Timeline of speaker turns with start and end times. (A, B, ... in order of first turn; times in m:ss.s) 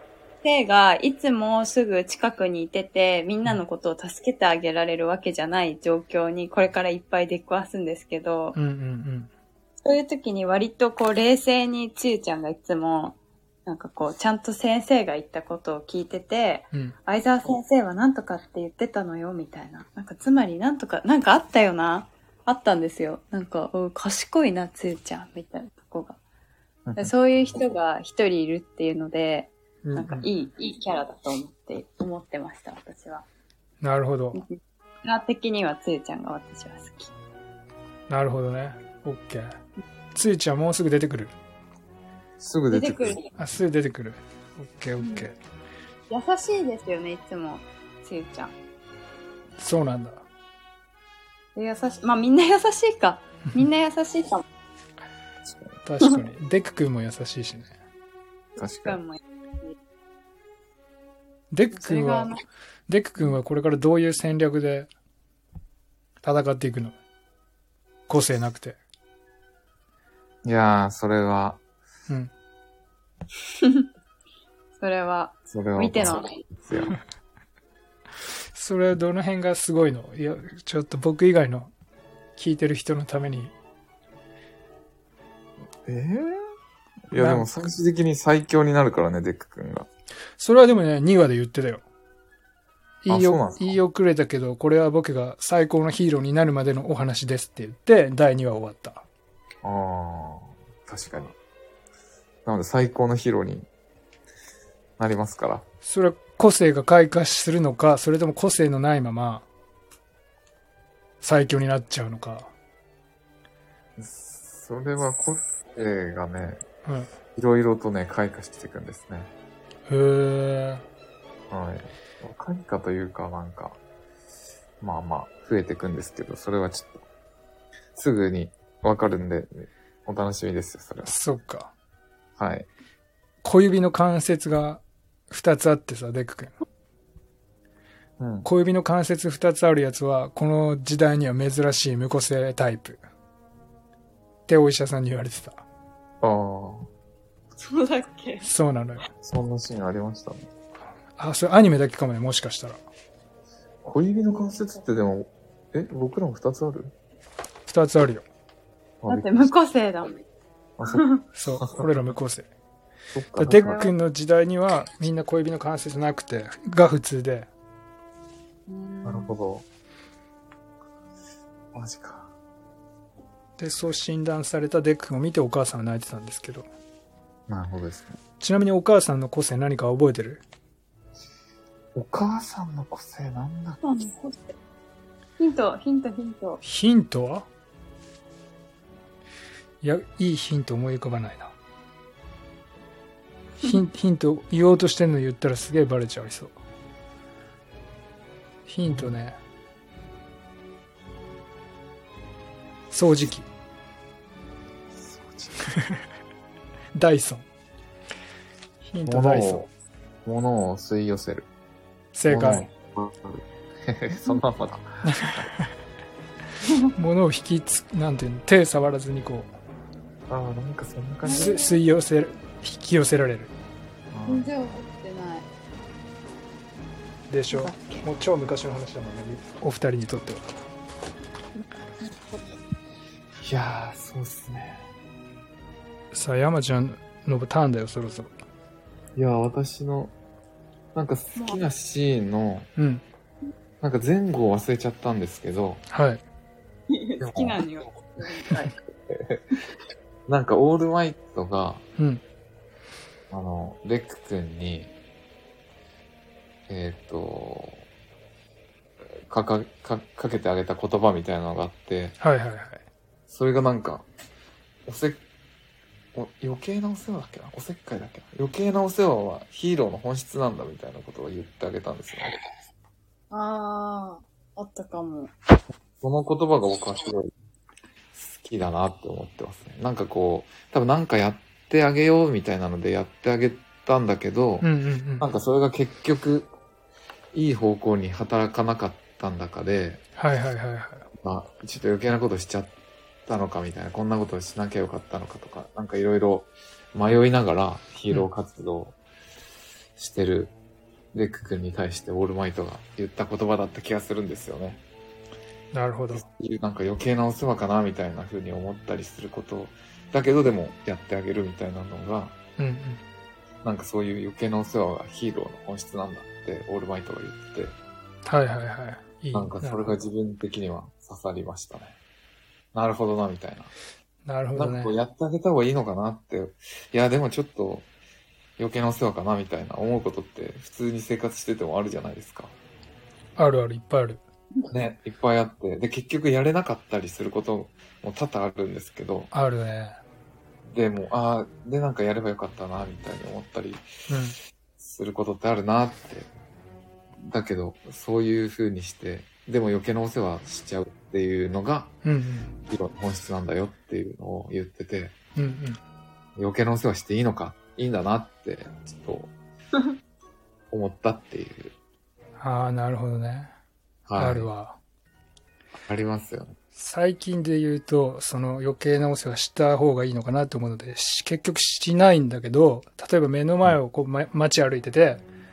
0:00.4-0:08.6 A
0:08.6-0:09.3 B
0:09.8-0:26.2 A
0:26.9-0:27.1 C
0:27.0-0:33.3 A
0:29.8-0:30.3 B
0:33.8-0:34.4 B
0:34.4-0:37.1 A
0:38.1-0:39.6 B
0:40.1-0:41.3 B
0:42.4-0:43.2 C
0:42.7-0:43.3 A
0:43.4-0:45.4 B
0:45.0-0:45.3 A
0:46.1-0:48.5 A
0:49.6-0:50.2 B
0:51.6-0:54.4 A
0:55.8-0:57.7 B
0:58.6-0:59.0 C
0:58.6-0:59.8 A
1:01.5-1:02.3 B
1:01.8-1:02.4 A
1:02.9-1:04.9 B
1:06.2-1:07.0 B
1:08.1-1:08.8 B
1:10.4-1:11.6 C
1:13.6-1:13.9 A
1:14.8-1:16.4 A
1:15.5-1:17.0 C
1:18.5-1:21.7 B
1:22.4-1:23.5 B
1:25.8-1:26.5 C
1:27.1-1:29.9 C
1:27.2-1:27.5 B
1:30.4-1:31.8 B
1:33.0-1:39.0 B
1:33.1-1:33.8 C
1:39.6-1:41.4 C
1:42.4-1:43.7 C
1:45.0-1:45.6 C
1:45.8-1:49.5 B
1:51.2-1:52.5 B
1:54.0-1:56.6 C
1:56.8-1:57.1 B
1:57.4-1:59.3 C
1:59.9-2:00.8 B
2:01.5-2:03.8 C
2:04.8-2:07.0 C
2:08.0-2:11.2 C
2:11.0-2:11.7 B
2:12.4-2:12.7 C
2:13.4-2:16.5 B
2:18.2-2:18.5 C
2:18.4-2:23.0 B
2:24.5-2:25.6 B
2:26.2-2:26.9 C
2:27.6-2:28.5 A
2:28.4-2:29.0 B
2:29.2-2:30.5 C
2:31.2-2:32.8 B
2:33.8-2:36.9 C
2:37.7-2:38.2 B
2:39.0-2:39.5 C
2:39.1-2:40.2 A
2:40.8-2:41.0 C
2:40.9-2:41.2 A
2:41.3-2:42.5 B
2:43.2-2:43.8 C
2:43.4-2:47.5 B
2:43.5-2:43.9 A
2:48.7-2:49.4 A
2:49.0-2:49.7 C
2:51.7-2:52.3 C
2:53.6-2:56.7 B
2:57.5-2:58.2 C
2:58.4-3:00.4 B
3:02.0-3:03.8 C
3:03.8-3:04.6 A
3:05.4-3:06.6 A
3:06.6-3:07.5 B
3:09.8-3:11.5 B
3:13.6-3:16.5 B
3:18.7-3:19.4 B
3:18.9-3:19.1 C
3:22.9-3:23.5 B
3:25.0-3:25.7 C
3:25.7-3:26.0 B
3:27.0-3:27.4 B
3:28.8-3:29.7 B
3:29.1-3:29.7 C
3:30.2-3:31.5 C
3:32.2-3:32.7 B
3:32.3-3:35.5 C
3:35.0-3:35.7 B
3:36.7-3:36.9 A
3:37.0-3:39.5 B
3:40.3-3:41.5 C
3:41.2-3:41.8 A
3:41.3-3:43.5 B
3:44.1-3:44.5 C
3:44.3-3:45.5 A
3:47.3-3:50.4 B
3:47.5-3:48.1 A
3:52.0-3:52.5 A
3:53.4-3:54.8 C
3:56.1-3:58.3 B
3:59.2-4:00.1 C
4:00.9-4:02.7 C
4:01.4-4:01.6 A
4:02.8-4:03.0 B
4:03.8-4:05.8 C
4:05.9-4:06.2 B
4:06.9-4:08.8 A
4:07.2-4:07.6 C
4:09.1-4:09.4 C
4:10.3-4:11.8 C
4:12.0-4:12.2 B
4:13.3-4:14.9 C
4:16.7-4:17.8 C
4:19.2-4:22.2 C
4:22.2-4:22.8 B
4:23.3-4:24.1 C
4:24.9-4:25.2 C
4:26.2-4:32.4 C
4:33.3-4:35.3 A
4:36.0-4:37.3 C
4:38.1-4:44.7 C
4:44.6-4:45.3 B
4:45.2-4:46.5 C
4:47.3-4:50.0 C
4:50.2-4:51.1 B
4:51.2-4:52.7 C
4:53.3-4:59.0 C
5:00.0-5:00.5 C
5:01.1-5:04.8 C
5:05.7-5:06.2 B
5:06.1-5:12.4 C
5:12.6-5:13.0 B
5:13.6-5:17.8 C
5:18.3-5:19.9 B
5:19.3-5:22.0 C
5:22.7-5:23.7 C
5:24.3-5:24.9 B
5:24.6-5:27.9 C
5:28.6-5:32.6 C
5:33.4-5:34.2 B
5:34.7-5:39.3 C
5:39.3-5:40.0 B
5:40.7-5:43.8 C
5:44.1-5:44.4 B
5:44.8-5:46.3 C
5:47.2-5:51.9 C
5:52.0-5:52.5 B
5:52.7-5:55.2 C
5:55.4-5:55.8 B
5:56.4-5:59.3 C
6:00.7-6:01.8 C
6:02.4-6:03.5 B
6:04.1-6:04.5 C
6:04.2-6:04.8 B
6:05.8-6:06.6 C
6:06.8-6:15.2 B